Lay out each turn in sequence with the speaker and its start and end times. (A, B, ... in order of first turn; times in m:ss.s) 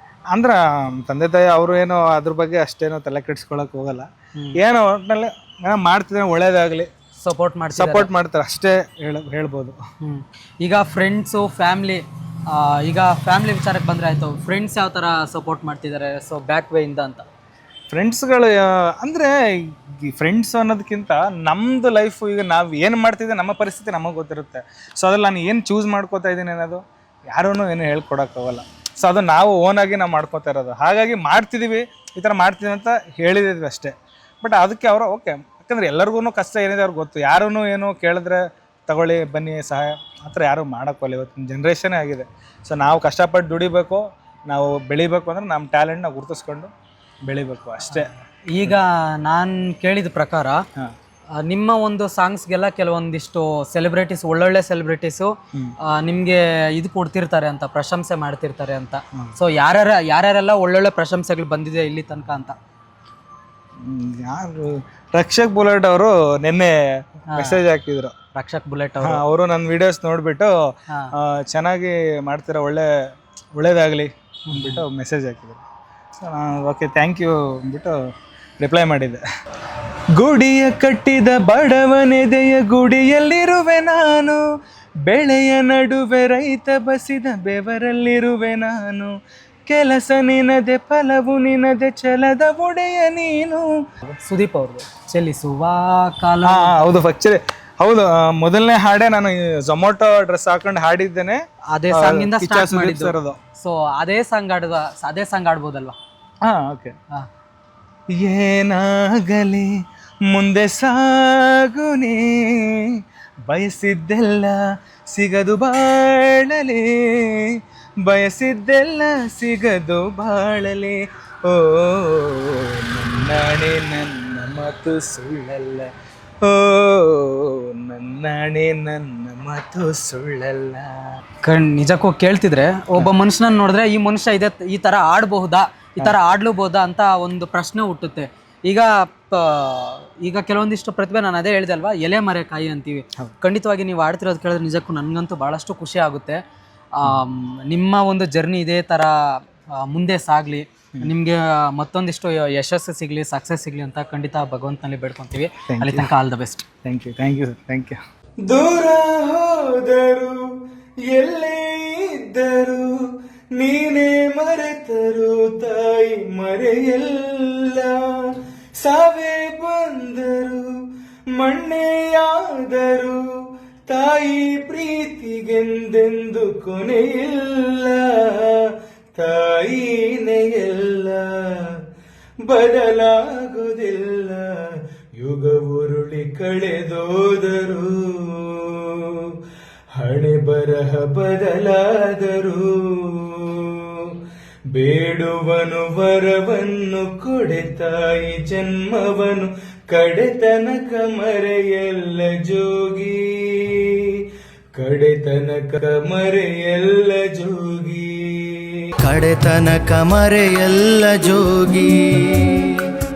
0:00.3-0:06.9 A
0:07.2-0:08.1 B
0:07.8-0:09.8 A
0:10.0-0:17.2 B
0:17.9-0:46.7 A
0:47.2-0:48.1 A
0:47.9-0:50.6 B
0:51.4-0:55.3 B
0:55.8-1:02.6 B
1:03.8-1:08.1 A
1:07.3-1:07.6 B
1:08.3-1:09.2 B
1:09.0-1:12.9 A
1:13.6-1:15.6 A
1:14.5-1:14.8 B
1:16.2-1:18.0 A
1:18.6-1:19.2 A
1:20.2-1:24.4 A
1:25.1-1:29.1 A
1:29.7-1:33.7 A
1:34.2-1:36.7 B
1:36.4-1:43.4 A
1:41.7-1:46.0 B
1:46.4-1:46.9 A
1:48.1-1:49.7 A
1:50.3-2:11.2 A
2:11.4-2:26.4 B
2:27.0-2:36.7 B
2:35.7-2:36.1 A
2:36.8-3:01.8 A
3:02.4-3:09.4 A
3:10.0-3:14.2 A
3:14.7-3:28.9 A
3:29.0-3:32.8 C